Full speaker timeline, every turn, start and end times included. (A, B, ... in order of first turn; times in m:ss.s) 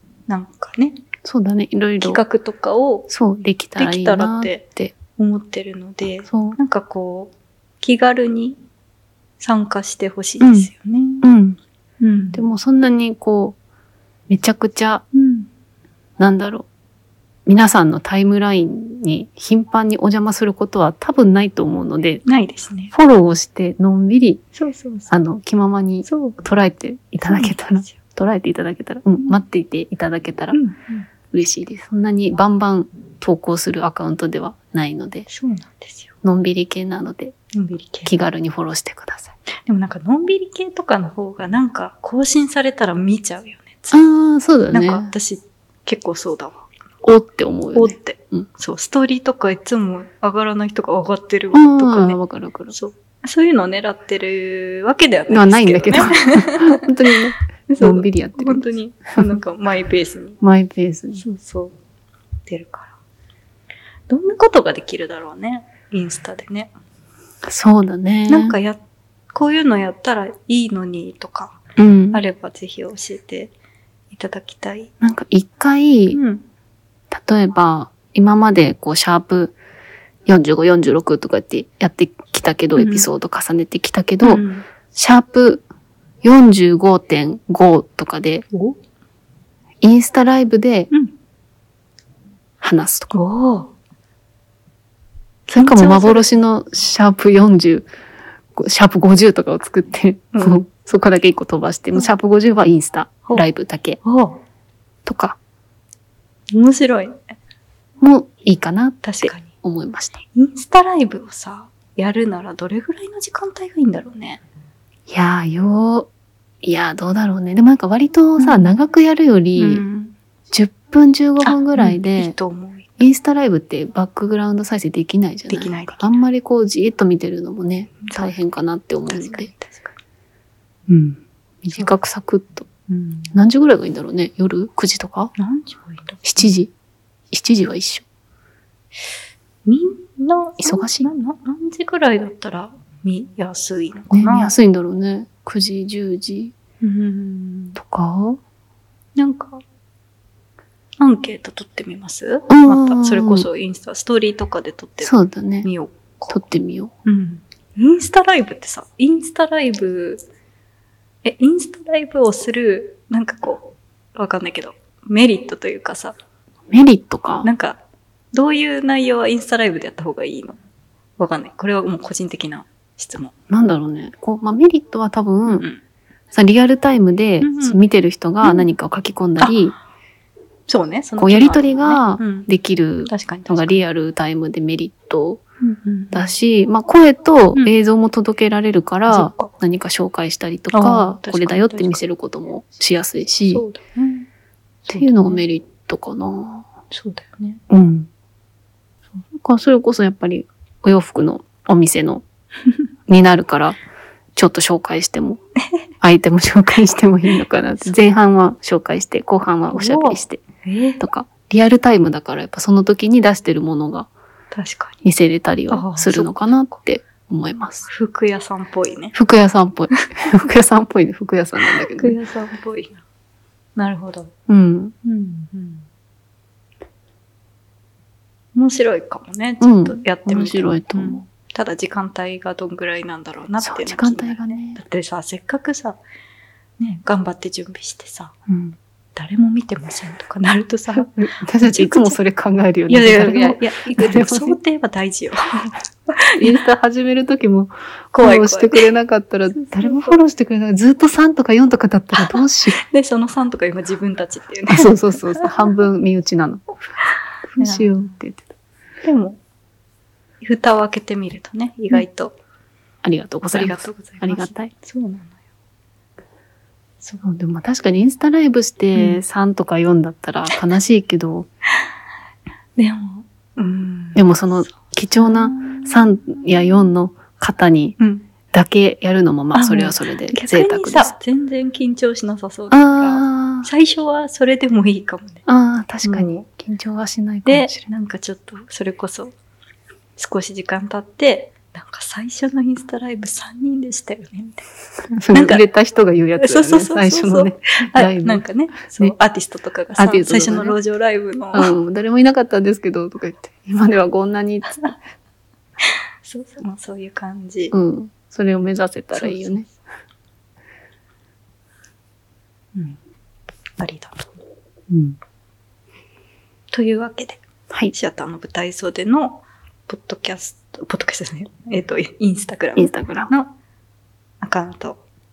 0:00.3-0:01.0 A
0:01.2-0:02.2 B
0:02.0-0:03.1 A
0:03.1-0:05.0 B
0:03.8-0:04.6 A
0:05.2-0:08.6 A
0:06.3-0:06.6 B
0:09.4-0:11.3 A
0:10.4-0:10.7 B
0:11.2-0:11.6 B
0:12.0-0:12.4 A
0:12.3-0:13.6 B
0:14.3-0:15.0 B
0:15.1-0:15.5 A
0:16.2-0:16.7 B
0:17.5-0:22.2 B
0:22.2-0:22.9 A
0:22.9-0:24.4 B
0:24.6-0:25.1 A
0:25.1-0:30.6 B
0:26.0-0:26.4 A
0:27.2-0:28.0 A
0:30.5-0:31.1 A
0:31.3-0:35.3 B
0:35.3-0:36.1 A
0:36.2-0:37.4 B
0:37.6-0:38.1 A
0:38.1-0:39.4 B
0:39.6-0:44.0 A
0:43.9-0:45.1 B
0:44.7-0:46.6 A
0:47.0-0:48.5 B
0:47.7-0:52.2 A
0:51.5-0:52.8 B
0:52.7-0:57.1 A
0:55.3-0:58.6 B
0:57.7-1:00.4 A
1:00.4-1:01.2 B
1:01.2-1:01.8 A
1:02.5-1:02.9 A
1:04.1-1:06.7 A
1:07.4-1:08.6 B
1:08.3-1:08.8 A
1:09.3-1:11.6 A
1:11.8-1:12.2 B
1:12.1-1:13.5 A
1:14.1-1:14.9 A
1:15.0-1:16.2 B
1:16.1-1:16.4 A
1:17.1-1:19.6 B
1:20.3-1:25.6 B
1:22.8-1:23.1 A
1:24.2-1:24.7 A
1:26.2-1:28.5 B
1:28.5-1:28.8 A
1:29.8-1:30.9 B
1:32.6-1:33.2 B
1:33.1-1:33.7 A
1:35.5-1:37.9 B
1:35.5-1:36.3 A
1:38.6-1:44.0 B
1:40.3-1:40.7 A
1:44.0-1:44.4 A
1:45.0-1:45.4 B
1:46.5-1:47.2 A
1:48.0-1:50.2 B
1:49.0-1:49.5 A
1:50.3-1:54.4 A
1:55.1-1:56.1 B
1:56.6-1:59.8 B
1:58.4-1:58.7 A
1:59.6-2:00.2 A
2:00.5-2:02.4 B
2:01.4-2:03.1 A
2:03.0-2:09.5 B
2:05.5-2:06.2 A
2:08.0-2:08.3 A
2:09.1-2:09.9 A
2:10.9-2:12.7 B
2:12.9-2:13.3 A
2:13.3-2:15.3 B
2:15.4-2:16.5 A
2:16.2-2:16.7 B
2:17.3-2:18.0 B
2:19.7-2:24.5 A
2:20.6-2:21.1 B
2:24.1-2:26.5 B
2:26.8-2:27.8 A
2:27.8-2:28.4 B
2:29.2-2:29.6 A
2:31.0-2:36.4 A
2:32.5-2:33.5 B
2:35.0-2:35.7 B
2:36.3-2:36.9 B
2:37.0-2:40.2 A
2:41.2-2:46.2 A
2:46.7-2:47.5 B
2:47.4-2:47.8 A
2:48.3-2:50.6 A
2:51.2-2:53.3 A
2:53.5-2:55.7 B
2:55.5-2:55.8 A
2:56.3-2:59.8 B
2:57.4-2:57.8 A
3:00.7-3:02.5 A
3:01.2-3:05.4 B
3:03.1-3:03.8 A
3:05.6-3:06.3 A
3:06.1-3:13.6 B
3:09.1-3:09.5 A
3:10.7-3:12.0 A
3:13.5-3:14.3 A
3:14.8-3:15.4 A
3:14.9-3:16.7 B
3:16.9-3:17.6 A
3:17.7-3:18.1 B
3:19.4-3:22.2 B
3:23.1-3:23.8 B
3:24.4-3:25.4 B
3:26.0-3:30.4 B
3:29.7-3:31.0 A
3:31.0-3:34.1 B
3:34.5-3:35.0 A
3:35.0-3:37.9 B
3:35.7-3:36.8 A
3:37.9-3:39.2 A
3:39.1-3:42.2 B
3:41.7-3:43.0 A
3:43.8-3:44.3 A
3:44.5-3:44.9 B
3:45.0-3:45.8 A
3:48.5-3:56.0 A
3:49.6-3:51.2 B
3:53.6-3:54.8 B
3:56.8-3:58.3 A
3:58.5-3:58.8 B
3:59.2-4:02.2 A
4:01.0-4:04.6 B
4:02.9-4:05.7 A
4:06.4-4:12.8 B
4:08.1-4:08.9 A
4:09.6-4:10.2 A
4:12.1-4:15.5 A
4:14.7-4:16.8 B
4:17.5-4:18.5 B
4:17.6-4:18.2 A
4:19.0-4:19.4 A
4:20.4-4:22.4 A
4:23.0-4:24.7 B
4:23.5-4:25.4 A
4:27.2-4:31.5 B
4:29.0-4:29.2 A
4:32.8-4:36.8 A
4:34.2-4:38.0 B
4:38.0-4:38.3 A
4:38.5-4:41.1 B
4:39.5-4:45.4 A
4:42.7-4:43.7 B
4:45.5-4:47.9 B
4:46.0-4:46.4 A
4:47.4-4:49.3 A
4:50.2-4:54.6 A
4:55.2-4:58.4 B
4:55.3-4:55.6 A
4:56.4-5:01.7 A
5:00.0-5:00.8 B
5:01.5-5:04.8 B
5:04.6-5:04.9 A
5:05.8-5:07.7 A
5:07.7-5:09.7 B
5:09.2-5:09.8 A
5:13.8-5:14.3 A
5:14.9-5:15.2 B
5:16.7-5:23.5 A
5:22.8-5:23.3 B
5:24.4-5:25.0 A